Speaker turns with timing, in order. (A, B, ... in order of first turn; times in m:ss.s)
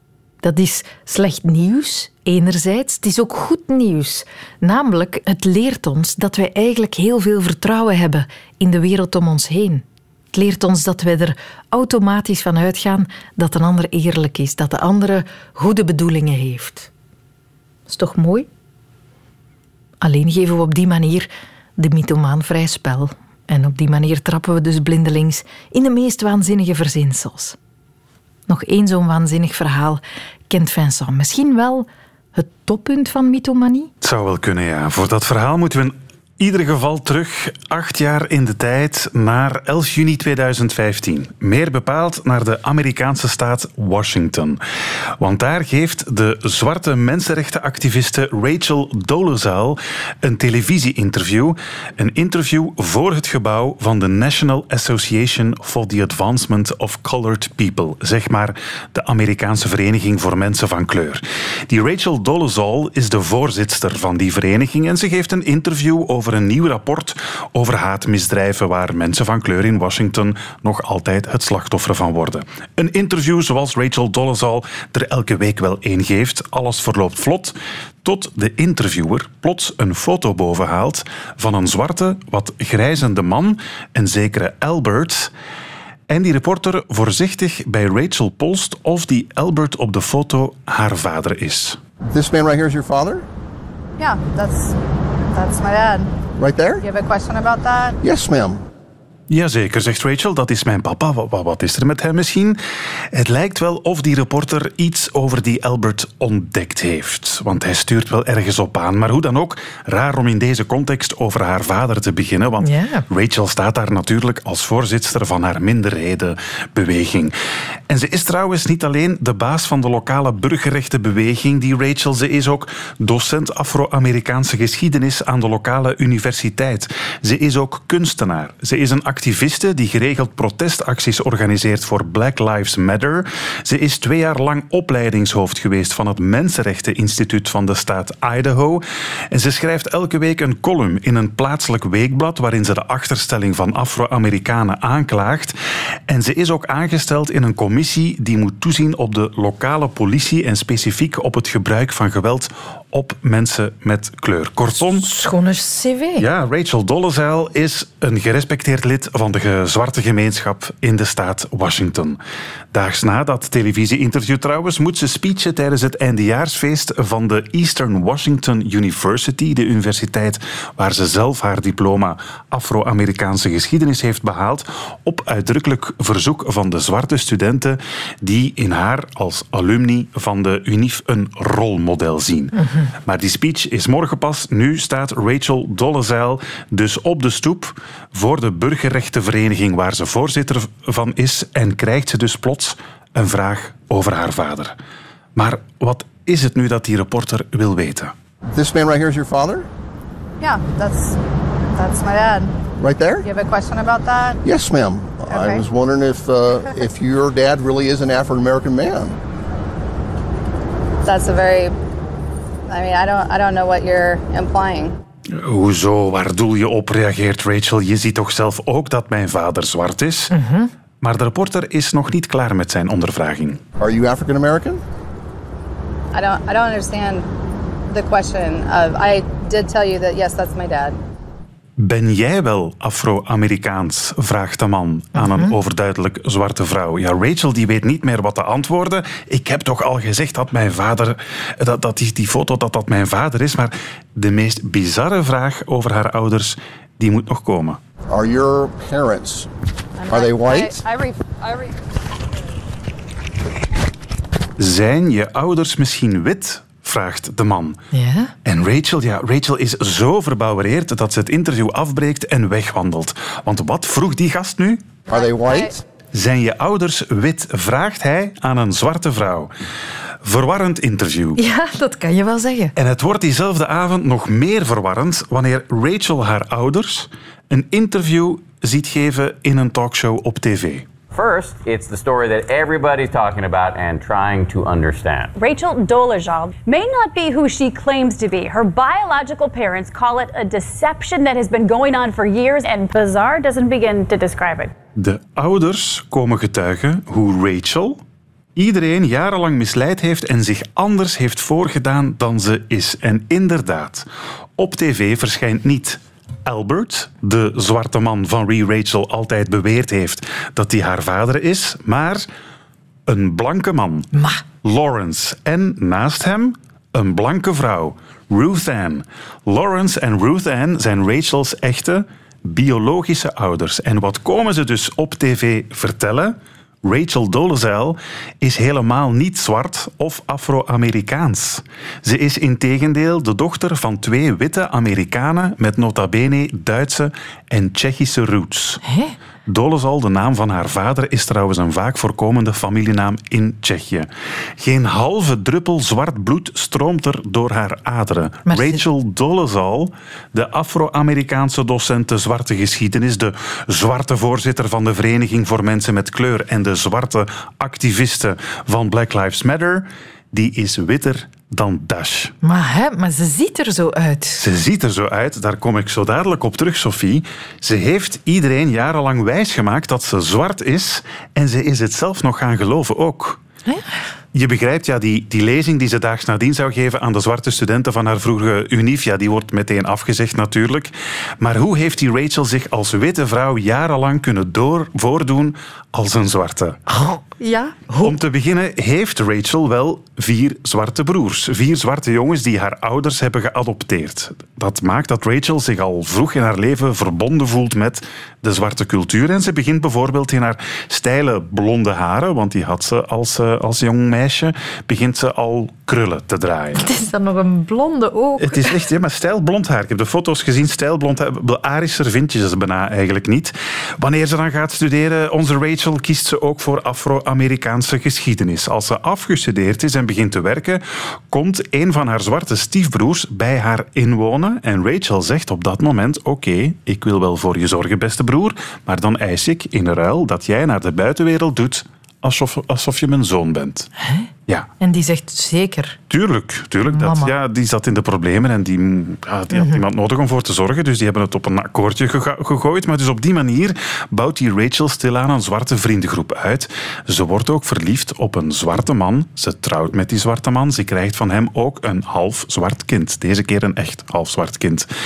0:00.4-0:16.9 A
0:17.9-0:18.5 A
0:20.0-0:27.6 A
0:28.5-0:33.9 A
0:34.0-0:44.6 B
0:45.2-1:25.3 B
1:26.1-1:31.8 B
1:32.1-1:33.3 C
1:34.0-1:34.8 D
1:35.3-1:36.1 D
1:36.4-1:36.8 C
1:36.8-1:38.0 D
1:38.0-1:38.6 C
1:39.3-1:42.6 B
1:43.1-1:57.3 B
1:52.6-1:53.1 A
1:57.9-2:25.6 B
2:26.1-2:35.1 B
2:34.8-2:36.3 A
2:36.2-2:42.2 B
2:42.7-3:02.5 B
3:02.5-3:02.9 A
3:03.0-3:14.8 B
3:15.4-3:18.1 B
3:18.5-3:19.7 C
3:20.4-3:21.2 D
3:21.7-3:22.6 D
3:22.8-3:23.3 C
3:23.2-3:24.4 D
3:24.4-3:29.2 C
3:25.3-3:25.6 D
3:31.0-3:31.8 D
3:32.7-3:35.0 D
3:35.4-3:40.3 B
3:40.3-3:40.7 A
3:41.0-3:43.6 B
3:43.8-3:44.8 C
3:46.1-3:47.2 D
3:47.9-3:51.0 D
3:51.8-4:07.8 B
3:55.2-3:55.6 A
4:08.1-4:09.5 C
4:10.0-4:11.7 D
4:10.1-4:10.8 C
4:14.6-4:17.8 B
4:17.9-4:18.3 A
4:18.4-4:25.0 B
4:25.1-4:25.7 D
4:25.1-4:25.8 C
4:26.1-4:29.5 B
4:30.2-4:31.4 B
4:31.4-4:32.7 A
4:32.8-4:40.8 B
4:41.1-4:45.3 E
4:45.4-4:54.7 F
4:55.0-4:58.0 B
4:58.6-5:04.1 B
5:04.6-5:12.3 B
5:13.1-5:14.1 B
5:14.1-5:14.4 A
5:14.6-5:38.8 B
5:38.8-5:39.2 A
5:39.5-6:02.3 B
5:48.5-5:48.8 A
6:02.4-6:04.4 A
6:04.4-6:13.4 B
6:13.7-6:14.0 A
6:14.3-6:26.8 B
6:26.9-6:28.2 A
6:28.0-6:46.8 B
6:46.7-6:48.8 A
6:48.4-7:13.9 B
7:14.0-7:14.3 A
7:14.8-7:16.0 A
7:16.1-7:34.9 B
7:16.9-7:17.3 A
7:19.5-7:19.8 A